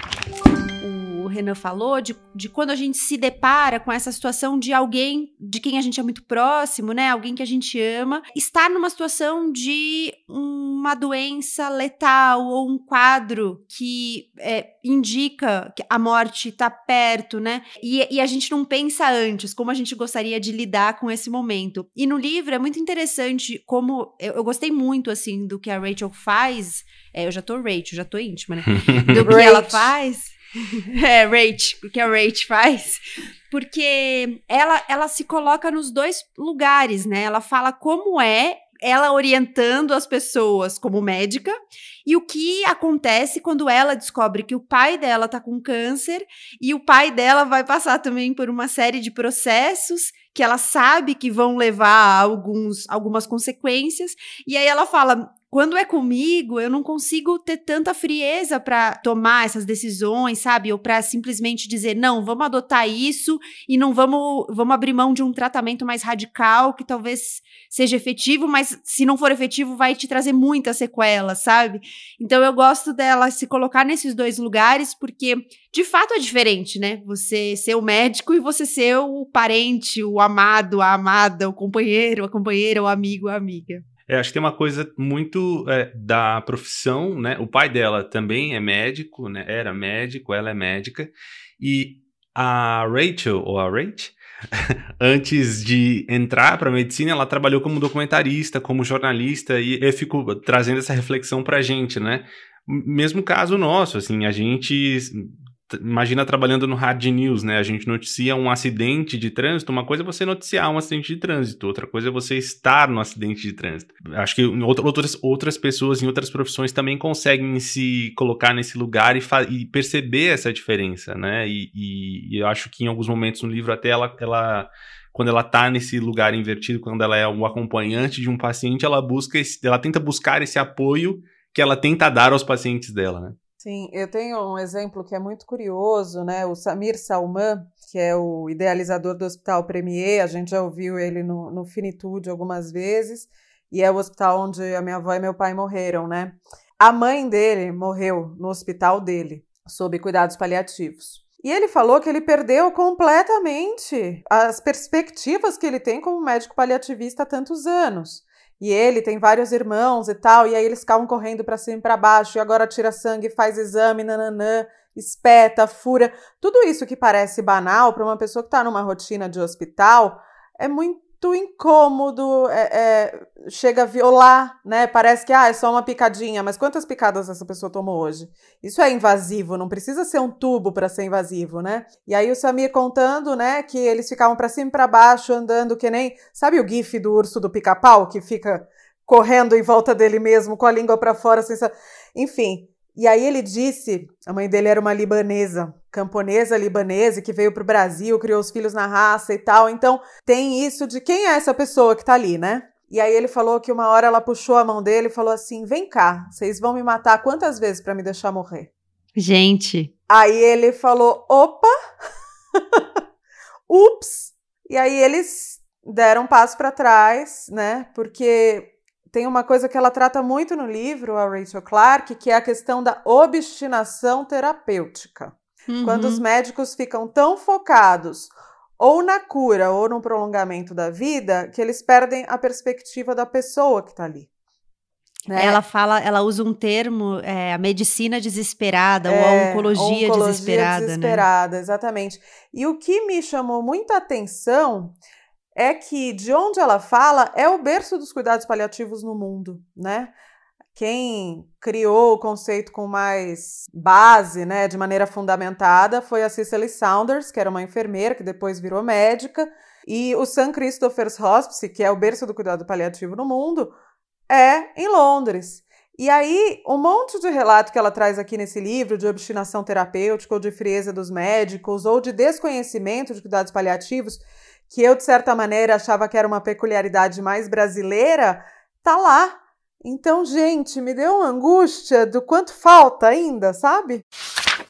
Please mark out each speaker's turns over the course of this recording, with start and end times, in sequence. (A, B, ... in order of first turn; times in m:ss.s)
0:00.8-1:23.8 A
0:28.8-0:29.2 B
0:29.2-0:29.9 C
1:24.1-2:13.4 B
2:13.6-3:28.7 C
3:29.2-3:29.9 A
3:30.1-3:31.7 C
3:33.7-3:54.3 C
3:45.7-3:46.2 A
3:55.3-3:55.6 C
3:55.3-4:01.2 A
3:59.0-4:05.0 C
4:05.5-4:10.1 C
4:10.7-4:23.7 C
4:24.3-4:44.0 C